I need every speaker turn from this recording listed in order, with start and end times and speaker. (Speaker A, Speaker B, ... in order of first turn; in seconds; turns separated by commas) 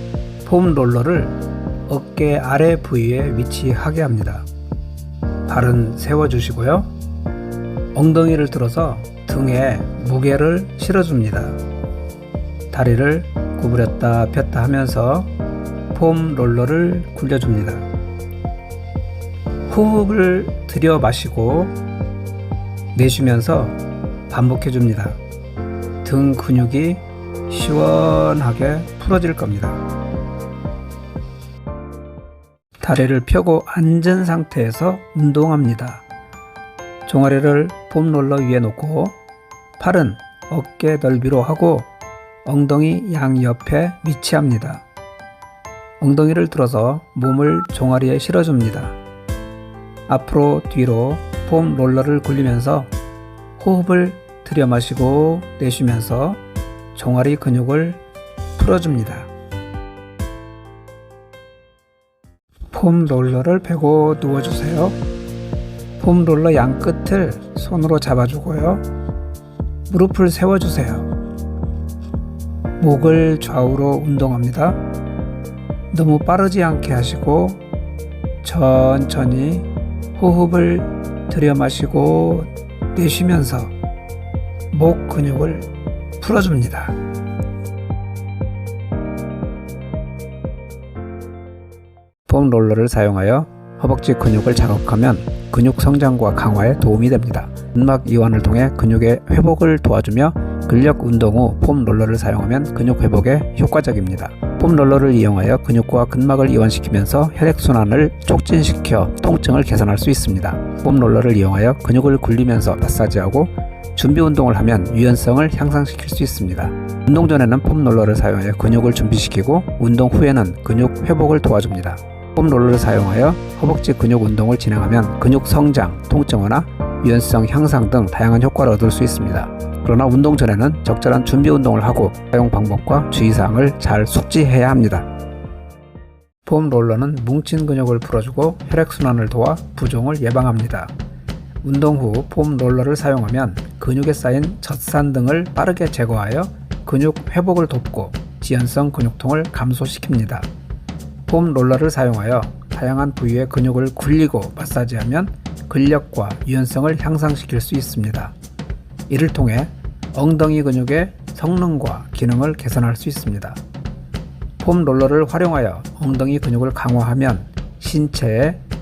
Speaker A: 0.4-4.5, Speaker A: 5.5-6.9, Speaker A: 7.9-11.6, Speaker A: 12.7-15.3, Speaker A: 15.9-17.9, Speaker A: 19.7-21.7, Speaker A: 22.9-23.8, Speaker A: 24.3-25.2, Speaker A: 26.0-29.8, Speaker A: 32.8-36.0, Speaker A: 37.0-39.2, Speaker A: 39.8-41.9, Speaker A: 42.4-44.8, Speaker A: 46.0-49.0, Speaker A: 50.1-52.9, Speaker A: 53.6-56.4, Speaker A: 56.9-58.0, Speaker A: 58.5-59.3, Speaker A: 62.7-65.0, Speaker A: 66.0-68.8, Speaker A: 69.9-71.1, Speaker A: 72.8-74.8, Speaker A: 75.9-77.6, Speaker A: 78.4-83.7, Speaker A: 84.7-85.7, Speaker A: 86.2-87.0, Speaker A: 92.3-135.1, Speaker A: 136.4-140.9, Speaker A: 141.6-150.5, Speaker A: 151.3-158.3, Speaker A: 159.1-163.6, Speaker A: 164.6-168.6